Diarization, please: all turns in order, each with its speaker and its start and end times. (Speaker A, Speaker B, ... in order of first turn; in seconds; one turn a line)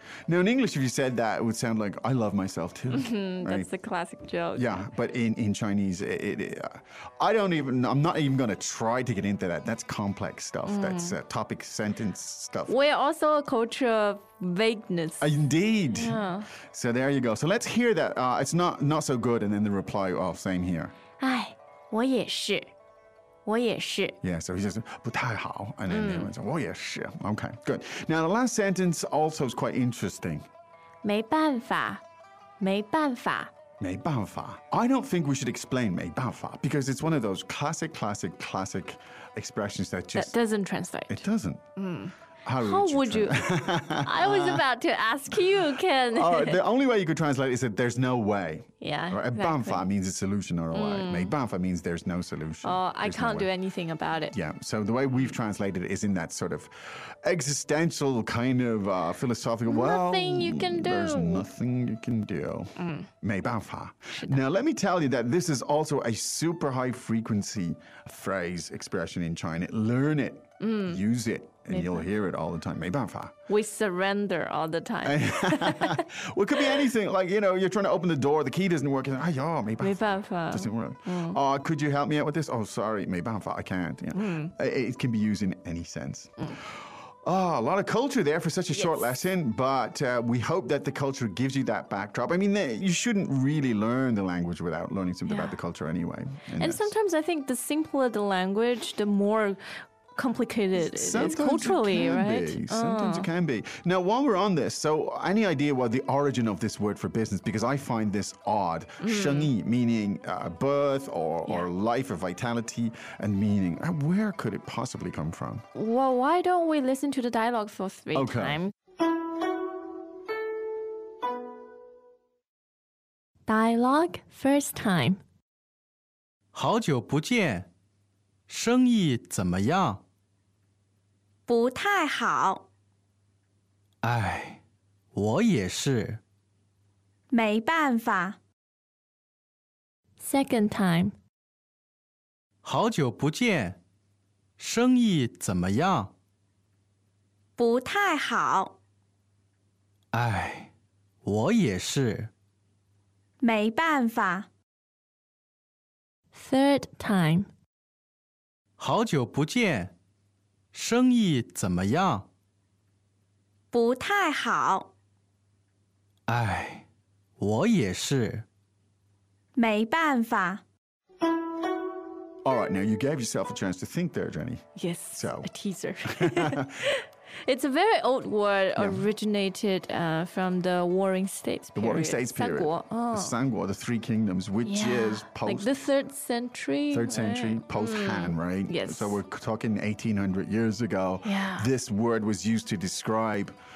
Speaker A: 0.3-3.7
Speaker B: 2.9-4.8
Speaker A: 4.5-12.8
Speaker B: 10.7-11.2
Speaker B: 12.7-15.3
Speaker A: 15.2-16.2
Speaker B: 15.9-16.5
Speaker A: 16.7-20.9
Speaker B: 21.2-22.7
Speaker B: 23.4-24.2
Speaker A: 24.2-30.4
Speaker B: 25.9-26.3
Speaker B: 31.0-32.0
Speaker B: 32.6-33.5
Speaker A: 33.8-40.4
Speaker B: 40.1-41.2
Speaker A: 41.1-41.6
Speaker B: 41.8-46.6
Speaker A: 42.5-44.6
Speaker A: 46.1-53.5
Speaker B: 48.8-49.9
Speaker B: 50.7-51.3
Speaker B: 52.6-54.3
Speaker A: 54.3-73.3
Speaker B: 59.7-61.5
Speaker B: 62.8-63.1
Speaker B: 64.1-64.4
Speaker B: 70.6-71.0
Speaker B: 71.7-72.1
Speaker B: 73.5-76.1
Speaker A: 75.0-96.9
Speaker B: 79.8-81.4
Speaker B: 84.2-84.5
Speaker B: 88.7-89.2
Speaker B: 95.3-95.6
Speaker B: 96.6-99.6
Speaker B: 100.2-103.3
Speaker A: 100.8-115.7
Speaker B: 109.0-109.5
Speaker B: 115.8-118.7
Speaker A: 118.1-118.6
Speaker B: 123.5-125.2
Speaker C: 126.5-127.7
Speaker C: 128.5-130.0
Speaker D: 131.5-132.6
Speaker C: 134.0-134.6
Speaker C: 135.1-136.2
Speaker D: 137.3-138.4
Speaker B: 140.2-141.2
Speaker C: 142.6-143.8
Speaker C: 144.6-146.1
Speaker D: 147.6-148.8
Speaker C: 150.1-150.7
Speaker C: 151.2-152.3
Speaker D: 153.4-154.5
Speaker B: 156.3-157.5
Speaker C: 158.8-159.9
Speaker C: 160.7-162.3
Speaker D: 163.7-164.9
Speaker C: 166.3-166.9
Speaker C: 167.4-168.5
Speaker D: 169.6-170.6
Speaker A: 172.4-175.5
Speaker B: 174.8-183.4
Speaker A: 176.1-176.7
Speaker A: 178.8-179.1
Speaker A: 181.8-185.7
Speaker B: 184.7-189.2
Speaker A: 186.9-193.6
Speaker B: 191.2-191.7